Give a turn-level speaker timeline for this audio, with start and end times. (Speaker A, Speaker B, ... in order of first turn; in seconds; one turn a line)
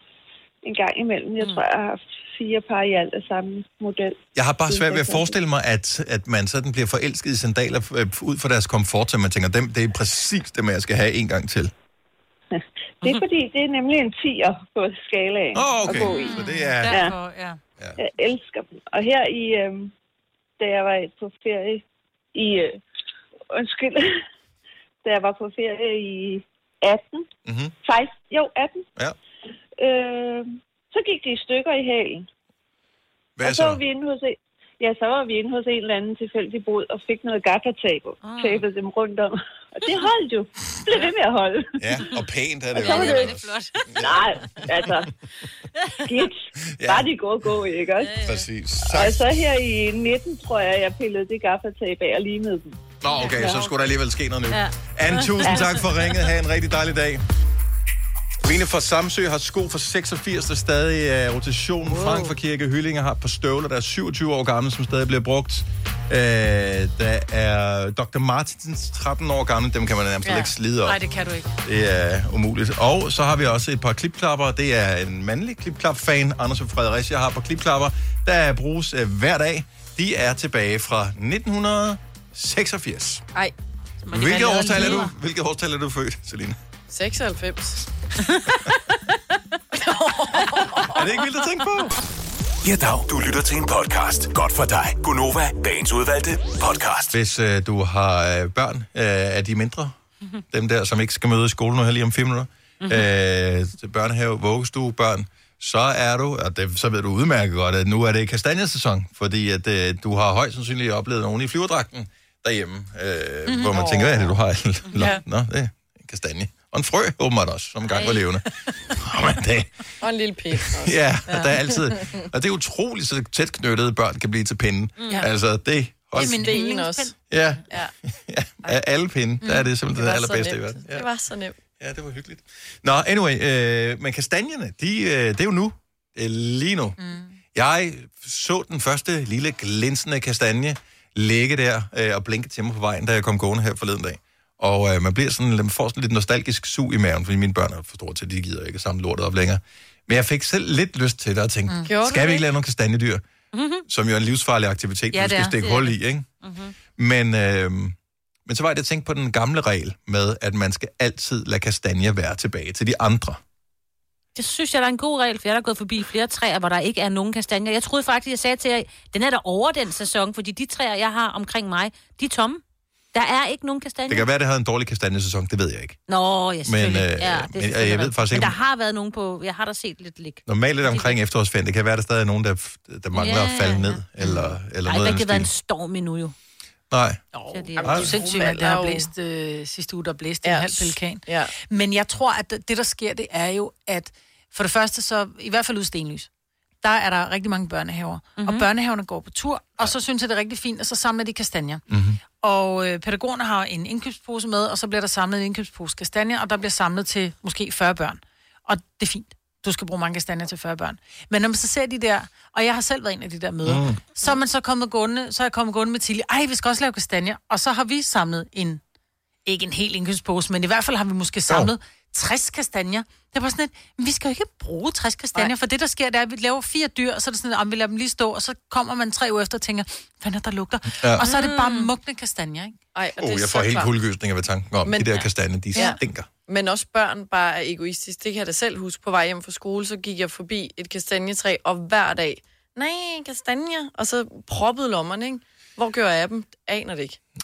Speaker A: 0.6-5.4
Speaker B: 4.3-11.7
Speaker A: 12.6-17.1
Speaker B: 15.6-17.0
Speaker C: 15.9-17.6
Speaker A: 18.0-19.9
Speaker A: 20.6-21.8
Speaker A: 22.4-22.8
Speaker A: 23.5-24.2
Speaker A: 25.0-27.3
Speaker B: 27.5-27.7
Speaker A: 27.8-28.9
Speaker A: 29.8-32.3
Speaker B: 33.4-33.8
Speaker A: 33.4-42.0
Speaker D: 38.2-38.6
Speaker B: 41.8-44.3
Speaker A: 42.8-43.3
Speaker D: 42.8-44.2
Speaker A: 44.0-45.1
Speaker A: 46.0-48.2
Speaker B: 46.8-47.1
Speaker D: 48.0-48.4
Speaker B: 48.2-49.3
Speaker A: 48.8-52.8
Speaker B: 53.0-57.2
Speaker D: 53.2-53.7
Speaker D: 54.5-56.2
Speaker B: 58.4-71.0
Speaker D: 61.9-62.3
Speaker E: 70.2-70.5
Speaker C: 70.8-71.5
Speaker B: 71.6-83.2
Speaker D: 84.1-85.1
Speaker B: 84.1-86.6
Speaker E: 86.9-87.8
Speaker D: 88.3-88.6
Speaker E: 89.8-91.0
Speaker B: 90.9-92.0
Speaker F: 92.6-97.2
Speaker B: 97.1-100.0
Speaker B: 100.5-119.7
Speaker C: 113.5-114.0
Speaker E: 113.7-114.3
Speaker C: 115.0-115.2
Speaker D: 117.9-118.3
Speaker E: 120.0-122.2
Speaker B: 120.8-126.6
Speaker D: 125.0-125.3
Speaker E: 126.1-127.2
Speaker C: 126.2-127.1
Speaker B: 127.3-131.1
Speaker E: 129.9-131.6
Speaker B: 131.8-137.0
Speaker C: 137.0-137.4
Speaker B: 137.5-153.2
Speaker C: 151.7-151.9
Speaker E: 151.9-152.5
Speaker D: 153.5-153.8
Speaker B: 153.9-156.3
Speaker C: 155.1-155.8
Speaker D: 155.6-156.7
Speaker B: 157.0-163.4
Speaker D: 164.3-172.6
Speaker D: 173.1-174.3
Speaker B: 174.1-176.0
Speaker D: 176.1-181.2
Speaker B: 176.6-178.6
Speaker B: 180.5-185.5
Speaker D: 183.1-186.3
Speaker B: 186.9-187.2
Speaker C: 187.3-196.3
Speaker D: 187.5-188.0
Speaker E: 187.8-189.1
Speaker B: 187.8-188.2
Speaker E: 190.4-191.5
Speaker C: 196.8-201.8
Speaker D: 198.4-198.7
Speaker B: 201.9-202.2
Speaker C: 202.4-218.8
Speaker B: 213.6-214.0
Speaker C: 219.5-232.8
Speaker B: 231.0-231.3
Speaker D: 231.2-231.9
Speaker E: 232.9-233.9
Speaker B: 233.2-236.3
Speaker E: 234.8-247.2